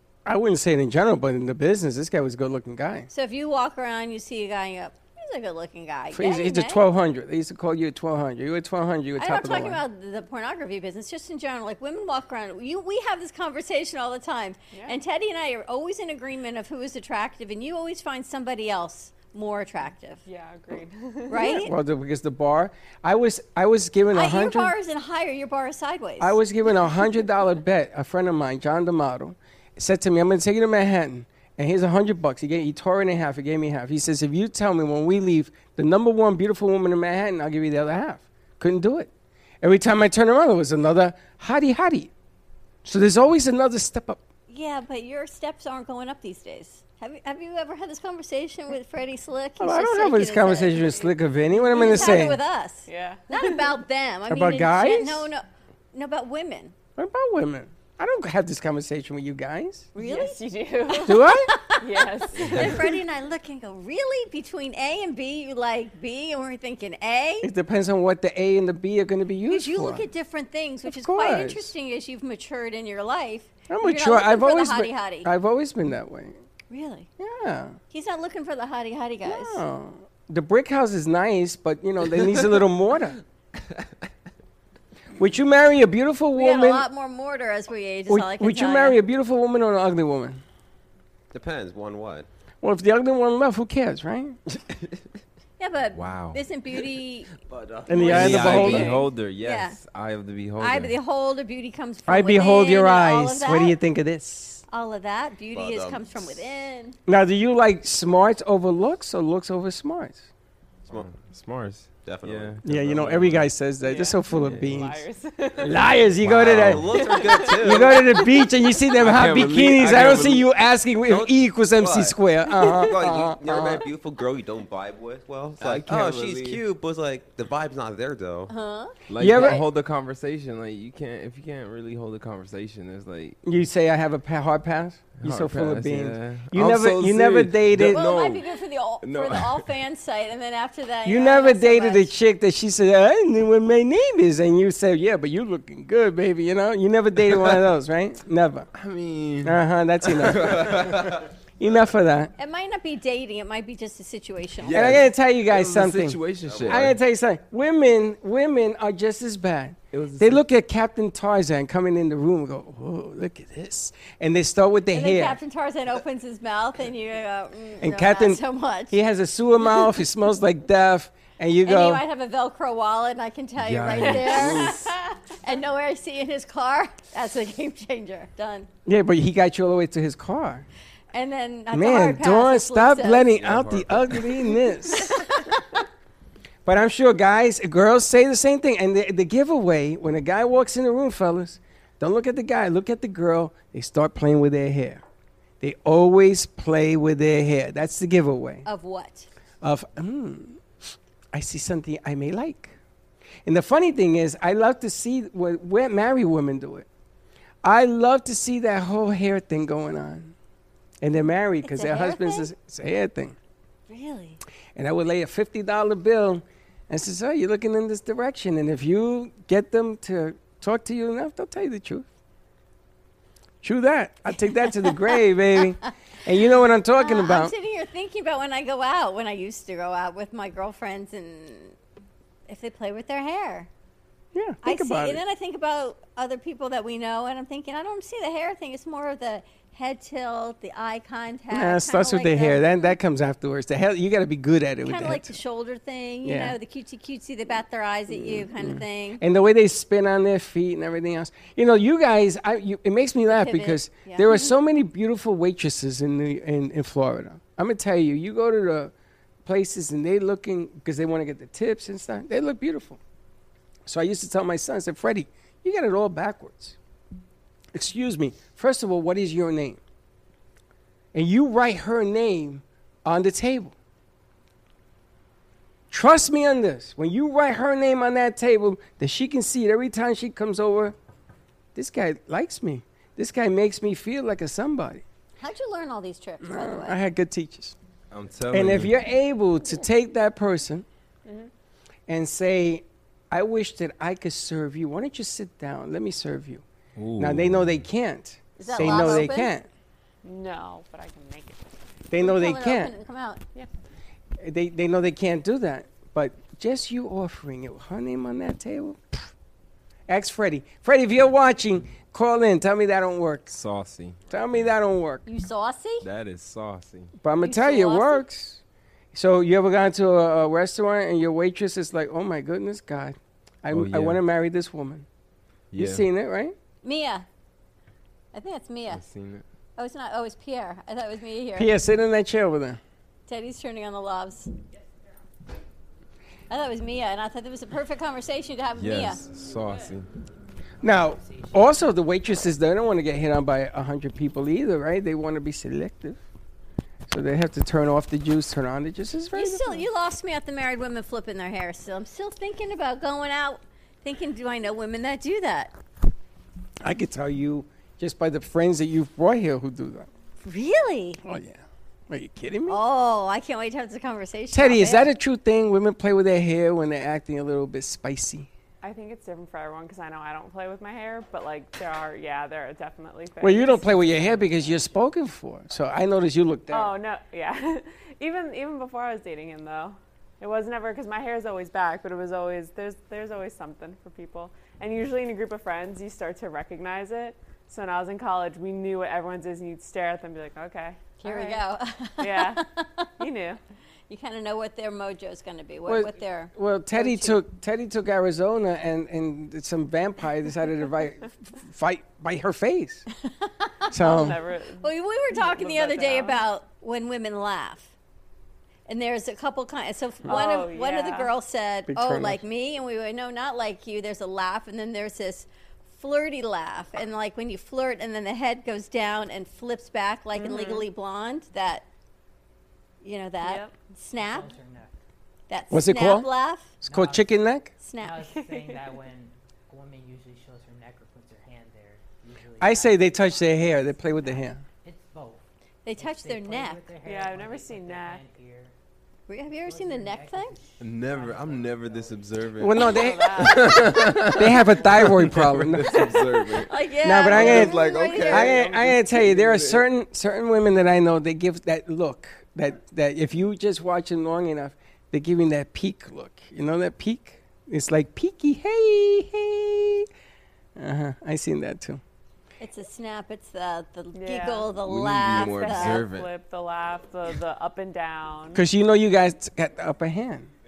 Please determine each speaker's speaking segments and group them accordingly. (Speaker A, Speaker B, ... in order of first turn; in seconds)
Speaker A: 0.3-3.1, 6.1-9.8, 21.4-24.7, 26.2-39.1, 39.6-42.1, 42.9-44.2, 49.6-52.4, 54.3-55.3, 57.0-59.9, 61.0-61.5, 67.4-70.0, 70.9-71.7, 73.7-76.4, 77.2-77.8, 79.2-83.2, 85.2-86.9, 88.1-90.4, 92.6-94.4, 97.9-99.0, 102.1-104.6, 107.1-110.3, 112.6-115.0, 115.6-123.9, 129.2-129.6, 133.4-138.0, 141.1-148.7, 149.4-151.1, 151.6-152.3, 154.7-165.4, 167.8-172.0, 178.8-180.7, 181.7-185.2, 186.7-195.0, 195.6-198.7, 199.6-202.8, 203.4-206.9, 207.6-210.3, 211.0-213.4, 214.8-222.1, 223.6-227.5, 234.3-235.2, 241.5-245.4, 246.2-246.6, 248.1-258.9, 259.4-263.0, 263.9-266.8, 267.7-269.8, 271.1-273.8, 275.9-281.0, 281.8-285.0, 286.4-287.8, 288.5-290.9, 292.1-296.6, 297.2-299.7, 302.1-302.9, 304.4-309.3, 310.1-313.6, 314.3-315.2, 317.2-318.6, 319.1-325.1, 325.8-326.6, 331.6-332.8, 340.8-346.2, 347.1-349.9, 356.8-360.1, 361.2-362.8, 364.5-368.5, 373.4-376.9, 395.9-403.1, 403.9-404.4, 411.9-412.4, 425.7-426.3, 426.8-427.7, 432.6-434.6, 442.6-446.4, 447.0-460.1, 460.8-462.0, 468.5-470.5
Speaker B: 3.1-6.8, 9.2-20.2, 21.3-21.7, 24.1-26.4, 44.5-51.0, 51.5-56.7, 60.0-67.5, 69.5-75.3, 76.7-77.1, 77.9-79.6, 86.3-89.0, 95.6-97.3, 97.9-99.8, 100.6-103.8, 104.7-107.0, 128.5-129.6, 137.8-142.1, 152.4-155.0, 164.9-169.0, 171.6-178.7, 181.1-183.3, 184.9-185.8, 198.7-199.3, 211.6-212.5, 213.9-214.4, 224.8-225.2, 227.0-231.8, 232.5-233.7, 234.6-242.9, 244.8-249.2, 253.3-254.5, 285.4-287.0, 298.6-299.5, 302.2-303.4, 315.3-316.1, 317.4-318.2, 326.8-327.2, 328.3-329.0, 329.8-331.7, 333.3-334.5, 336.5-339.2, 349.4-355.8, 360.4-361.2, 362.7-365.1, 391.2-393.1, 394.1-397.4, 403.3-407.9, 408.9-421.9, 423.0-424.5, 425.5-426.7, 427.8-428.2, 435.9-436.8, 439.3-440.6, 446.5-448.6, 462.6-466.1
Speaker C: 14.7-15.0, 20.3-21.6, 52.9-53.8, 60.0-63.0, 113.8-115.8, 117.0-118.5, 173.9-174.9, 291.3-291.5, 300.2-301.8, 368.8-374.9, 376.7-391.6, 392.2-392.7, 393.2-393.6, 404.0-406.4, 410.3-411.3, 420.4-420.9, 423.4-423.7, 428.3-429.0, 437.0-438.2, 442.8-444.2, 464.1-464.8, 465.4-468.6
Speaker D: 62.4-62.8, 95.9-96.4, 98.0-101.0, 110.9-113.5, 114.3-114.9, 116.2-117.2, 119.0-120.5, 125.6-126.6, 129.1-133.4, 135.2-139.7, 148.7-151.2, 154.6-157.0, 159.9-160.4, 173.6-174.9, 183.3-184.3, 288.1-288.9, 297.0-297.7, 298.8-299.2, 313.5-314.3, 316.0-317.1, 323.7-324.2, 325.7-326.1, 328.9-329.4, 338.8-340.1, 440.8-449.9, 464.8-466.3
Speaker E: 91.3-92.3, 97.4-99.0, 105.5-106.4, 112.0-112.6, 116.3-118.2, 121.1-128.5, 156.4-156.9
Speaker F: 340.8-341.7, 424.2-424.9, 426.9-427.4, 428.0-435.4, 436.0-438.7, 439.5-442.5